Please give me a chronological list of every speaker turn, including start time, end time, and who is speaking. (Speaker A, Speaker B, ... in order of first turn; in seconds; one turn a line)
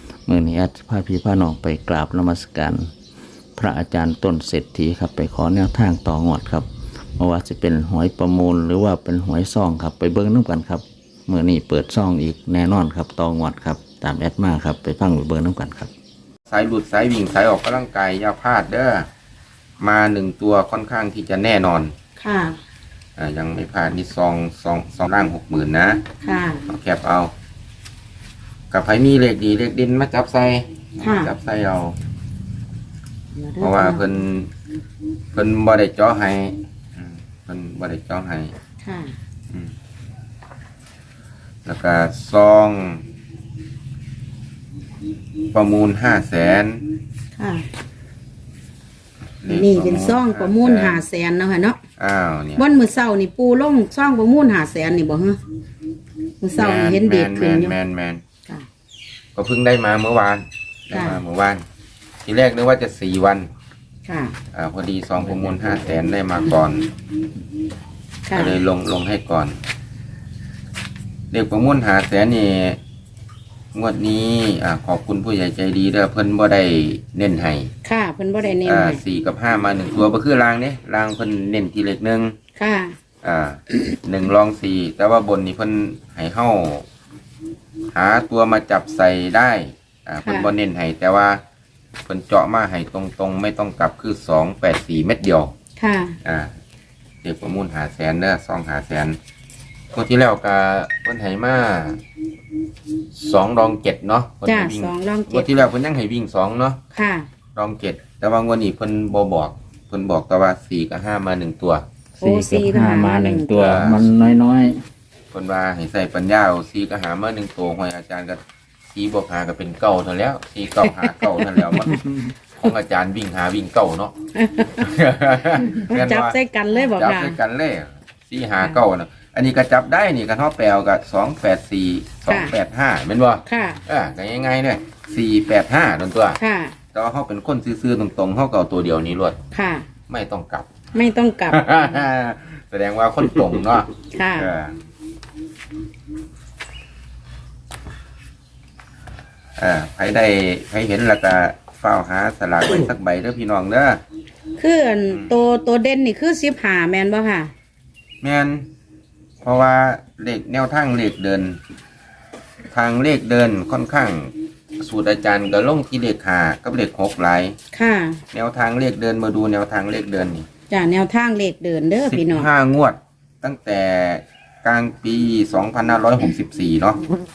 Speaker A: 0.3-2.9
Speaker A: 3.6-15.9
Speaker B: 16.5-19.1
Speaker B: 19.8-21.9
Speaker C: 22.2-22.6
Speaker B: 23.2-26.0
Speaker C: 26.2-26.6
Speaker B: 26.7-27.3
Speaker B: 28.7-32.0
Speaker C: 31.0-31.3
Speaker C: 33.3-34.0
Speaker B: 33.6-34.5
Speaker B: 35.3-38.5
Speaker C: 38.8-39.1
Speaker B: 41.7-43.0
Speaker B: 45.5-46.8
Speaker C: 47.4-47.7
Speaker B: 49.4-51.0
Speaker C: 49.5-51.8
Speaker B: 52.0-52.6
Speaker C: 52.5-55.4
Speaker C: 56.4-57.8
Speaker B: 56.6-58.2
Speaker B: 59.3-61.6
Speaker C: 60.9-61.2
Speaker B: 62.2-63.5
Speaker C: 64.1-64.4
Speaker B: 64.5-66.9
Speaker C: 68.3-68.5
Speaker B: 68.3-69.6
Speaker B: 71.3-72.8
Speaker B: 73.7-77.7
Speaker C: 77.8-79.0
Speaker B: 78.6-82.3
Speaker C: 82.6-82.9
Speaker B: 83.2-86.8
Speaker B: 87.9-91.4
Speaker C: 90.2-90.5
Speaker B: 92.1-95.5
Speaker C: 95.8-96.2
Speaker B: 96.2-96.5
Speaker B: 97.2-99.2
Speaker B: 99.9-102.0
Speaker B: 103.1-106.8
Speaker C: 104.5-105.6
Speaker C: 106.9-107.3
Speaker B: 107.5-111.8
Speaker C: 112.2-113.9
Speaker A: 112.2-114.8
Speaker B: 113.6-114.0
Speaker B: 115.3-122.0
Speaker C: 120.9-122.0
Speaker B: 122.6-124.1
Speaker C: 124.3-124.8
Speaker B: 124.8-126.3
Speaker C: 125.7-127.4
Speaker B: 126.9-136.4
Speaker C: 132.3-132.5
Speaker C: 133.4-133.8
Speaker C: 136.4-136.8
Speaker B: 136.9-139.4
Speaker C: 139.5-139.9
Speaker B: 140.1-140.7
Speaker C: 140.9-141.8
Speaker B: 141.5-144.8
Speaker C: 144.1-144.5
Speaker B: 149.6-154.0
Speaker C: 154.6-157.5
Speaker B: 158.2-158.7
Speaker B: 159.4-161.6
Speaker B: 162.7-167.6
Speaker C: 167.7-168.2
Speaker B: 168.3-170.5
Speaker C: 170.7-172.5
Speaker B: 172.0-177.0